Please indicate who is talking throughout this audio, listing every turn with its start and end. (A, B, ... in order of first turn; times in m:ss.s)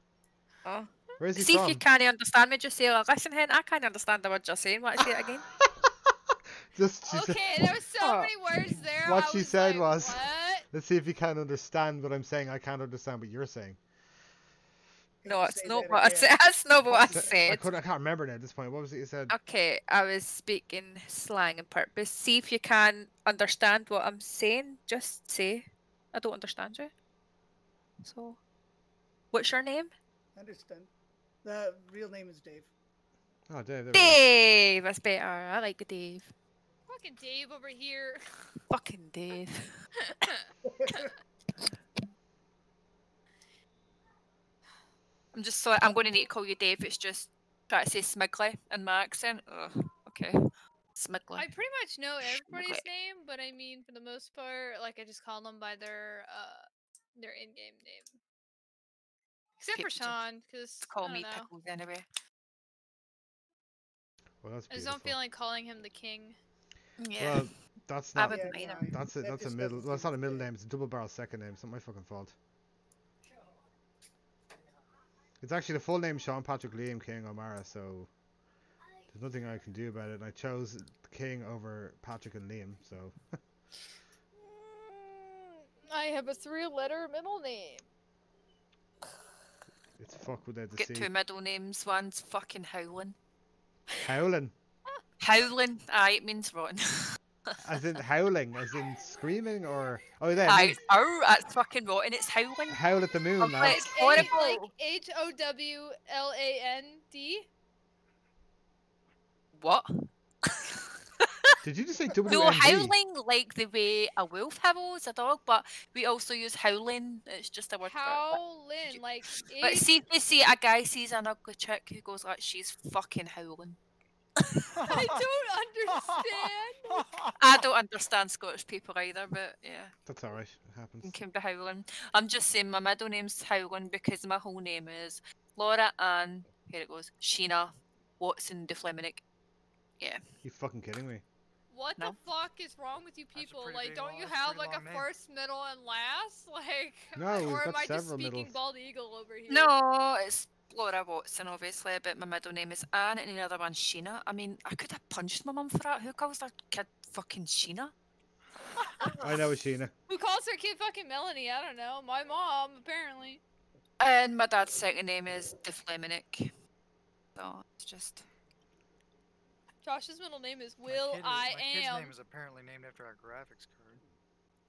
0:00.6-0:05.5 A
0:01.2-0:01.8 B
0:06.7-0:08.3 B
0:07.0-0:10.6 C
0:09.0-0:13.8 B
0:15.2-0:16.4 D
0:15.2-0:17.6 A
0:16.9-0:19.3 B
0:19.3-0:26.9 A
0:28.0-0:28.4 A
0:29.3-0:29.9 A
0:30.3-0:30.9 D
0:31.4-0:32.7 D
0:33.5-0:34.2 B
0:33.9-0:36.3 A
0:36.9-0:38.6 C
0:38.7-0:39.9 A
0:40.0-0:40.5 C
0:40.6-0:41.1 D
0:45.3-0:50.4 A
0:50.9-0:51.5 A
0:51.3-0:58.1 C
0:52.2-0:52.8 A
0:59.6-1:01.5 C
0:59.8-1:00.2 A
1:00.8-1:02.0 A
1:04.4-1:05.2 B
1:04.7-1:06.4 C
1:07.0-1:07.5 A
1:07.2-1:12.4 B
1:08.1-1:08.9 A
1:08.3-1:10.5 D
1:15.4-1:18.1 B
1:19.1-1:23.4 B
1:24.4-1:27.8 C
1:30.0-1:31.1 B
1:30.8-1:33.2 A
1:34.0-1:34.5 B
1:35.2-1:37.6 A
1:37.6-1:40.8 B
1:40.4-1:42.8 A
1:42.7-1:44.3 B
1:43.4-1:44.7 A
1:43.6-1:47.4 C
1:49.5-1:51.5 A
1:51.6-1:52.9 B
1:52.2-2:03.8 A
1:57.8-1:59.9 C
2:04.4-2:04.6 A
2:04.8-2:05.2 E
2:04.8-2:07.0 C
2:05.9-2:07.3 E
2:07.4-2:09.9 A
2:10.1-2:11.2 B
2:11.0-2:19.2 A
2:20.4-2:21.2 B
2:21.7-2:29.7 C
2:23.3-2:25.1 E
2:27.2-2:28.5 B
2:29.5-2:37.9 A
2:39.2-2:39.9 B
2:40.1-2:43.4 C
2:44.0-2:46.5 A
2:47.3-2:48.2 A
2:49.8-2:52.1 C
2:50.9-2:54.0 E